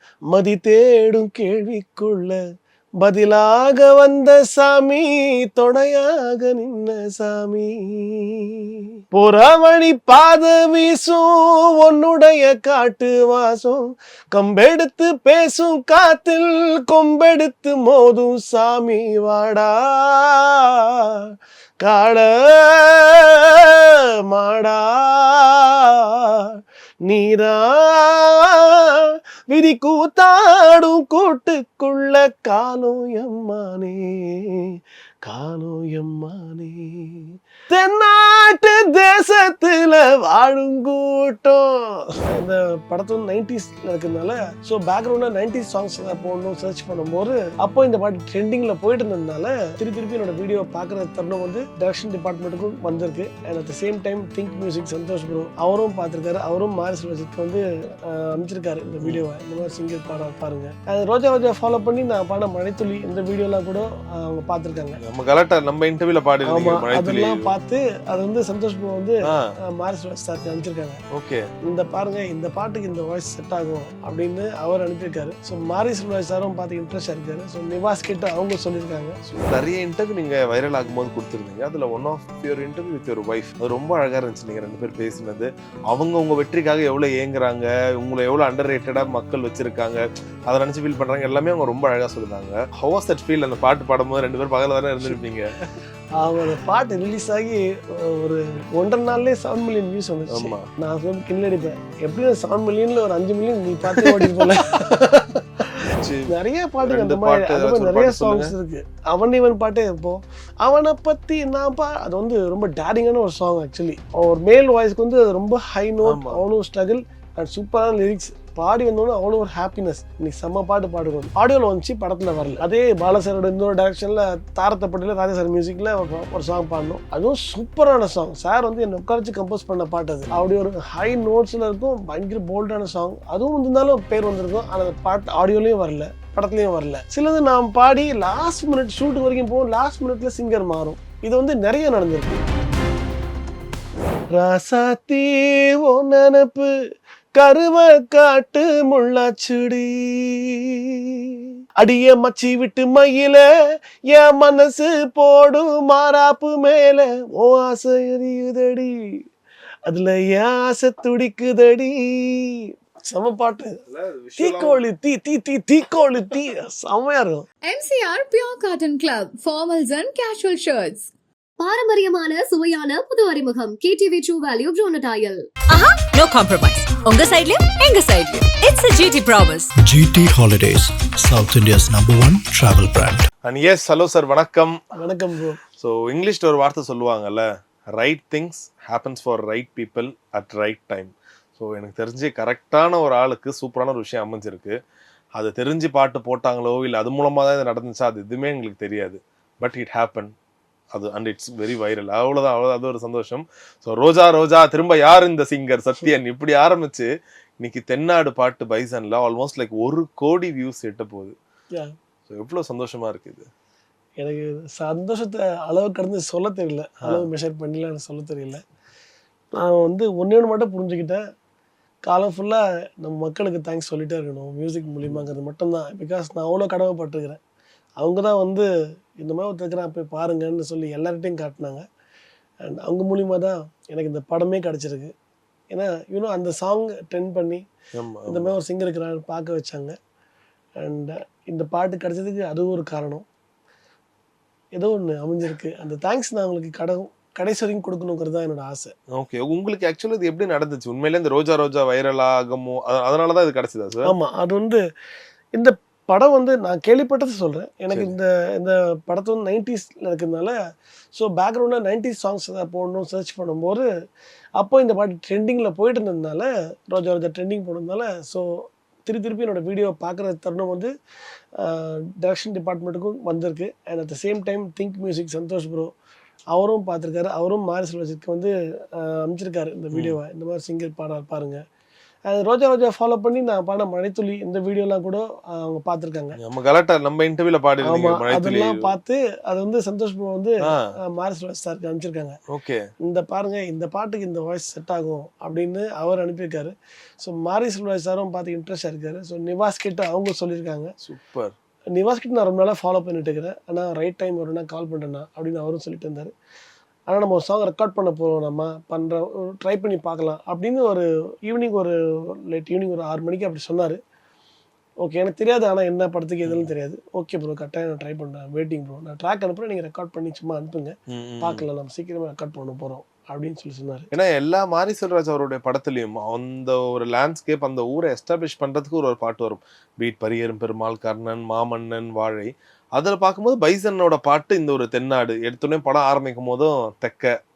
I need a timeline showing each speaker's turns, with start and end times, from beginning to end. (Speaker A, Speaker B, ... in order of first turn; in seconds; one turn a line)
Speaker A: 0.3-2.4
Speaker A: 3.0-8.5
Speaker A: 9.1-21.1
Speaker A: 21.8-26.5
Speaker A: 27.0-34.6
Speaker A: 35.2-65.0
Speaker B: 65.0-67.5
Speaker A: 66.5-71.0
Speaker B: 71.1-71.5
Speaker A: 71.7-79.2
Speaker B: 79.2-95.5
Speaker A: 96.2-105.6
Speaker B: 100.3-100.7
Speaker B: 104.0-104.4
Speaker B: 105.7-106.3
Speaker A: 106.3-142.4
Speaker B: 106.8-108.5
Speaker B: 116.0-116.4
Speaker A: 144.3-146.7
Speaker A: 147.3-150.7
Speaker A: 151.8-153.5
Speaker A: 154.1-158.9
Speaker A: 159.9-163.8
Speaker B: 163.9-164.8
Speaker A: 164.4-167.4
Speaker C: 167.7-171.1
Speaker D: 171.6-175.4
Speaker E: 175.7-179.7
Speaker F: 179.8-183.3
Speaker B: 183.4-184.8
Speaker A: 184.9-185.6
Speaker B: 185.8-194.8
Speaker B: 195.3-200.3
Speaker B: 200.9-207.1
Speaker B: 207.6-211.3
Speaker B: 212.3-213.5
Speaker A: 214.2-218.6
Speaker A: 219.6-221.2
Speaker A: 222.0-227.4
Speaker A: 228.0-228.7
Speaker A: 229.2-231.8
Speaker A: 232.6-235.1
Speaker A: 235.7-237.6
Speaker B: 237.9-238.5
Speaker A: 238.3-239.9
Speaker A: 240.8-243.2
Speaker A: 244.7-248.9
Speaker B: 249.1-254.1
Speaker A: 254.1-254.8
Speaker A: 255.6-260.6
Speaker A: 261.1-263.9
Speaker A: 264.6-268.5
Speaker A: 269.0-270.9
Speaker A: 271.6-275.9
Speaker A: 276.5-281.6
Speaker A: 282.3-286.4
Speaker B: 286.4-288.9
Speaker A: 287.8-292.4
Speaker B: 292.5-292.8
Speaker A: 293.0-300.9
Speaker B: 301.0-301.5
Speaker A: 301.9-306.3
Speaker A: 307.1-311.9
Speaker A: 312.5-314.0
Speaker A: 315.0-324.1
Speaker B: 316.4-316.7
Speaker B: 321.1-321.6
Speaker B: 324.1-337.3